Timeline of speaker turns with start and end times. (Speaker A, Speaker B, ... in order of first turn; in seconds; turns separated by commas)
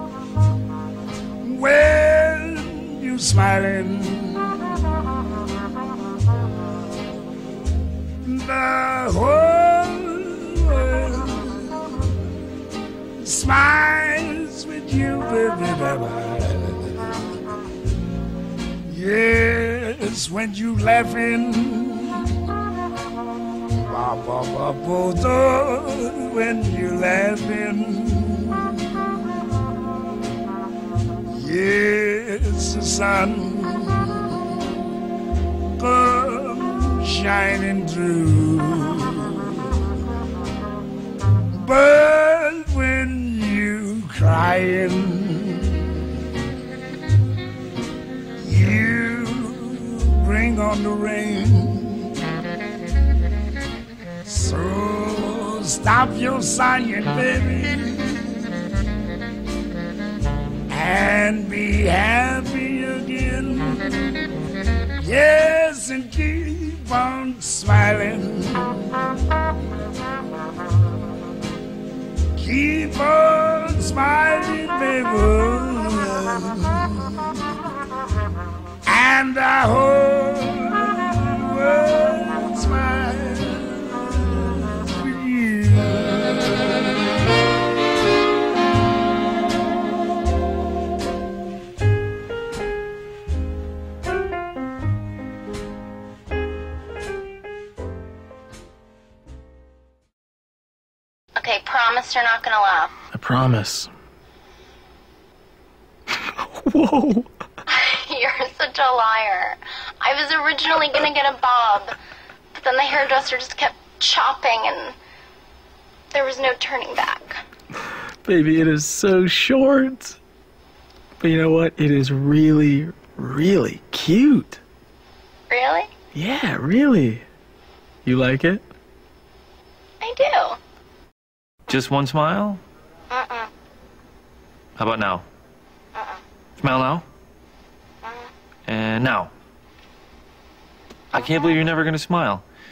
Speaker A: 1.4-4.5, Speaker A: 8.2-12.0, Speaker A: 13.2-17.0, Speaker A: 18.9-22.1, Speaker A: 23.8-28.8, Speaker A: 31.3-34.1, Speaker A: 35.8-39.6, Speaker A: 41.5-45.8, Speaker A: 48.4-52.1, Speaker A: 54.2-58.2, Speaker A: 60.7-64.0, Speaker A: 65.0-68.9, Speaker A: 72.4-76.7, Speaker A: 78.8-84.4, Speaker A: 85.0-86.2, Speaker B: 101.4-102.9, Speaker C: 103.1-103.9, Speaker C: 106.7-107.3, Speaker B: 107.7-111.9, Speaker B: 112.5-114.9, Speaker B: 116.1-117.4, Speaker C: 118.2-120.2, Speaker C: 121.2-124.6, Speaker B: 125.5-125.9, Speaker C: 126.1-127.2, Speaker C: 128.1-128.6, Speaker B: 130.0-130.6, Speaker D: 131.7-132.6, Speaker B: 133.1-133.5, Speaker D: 134.8-135.2, Speaker D: 136.6-137.1, Speaker D: 138.7-139.3, Speaker D: 141.1-142.4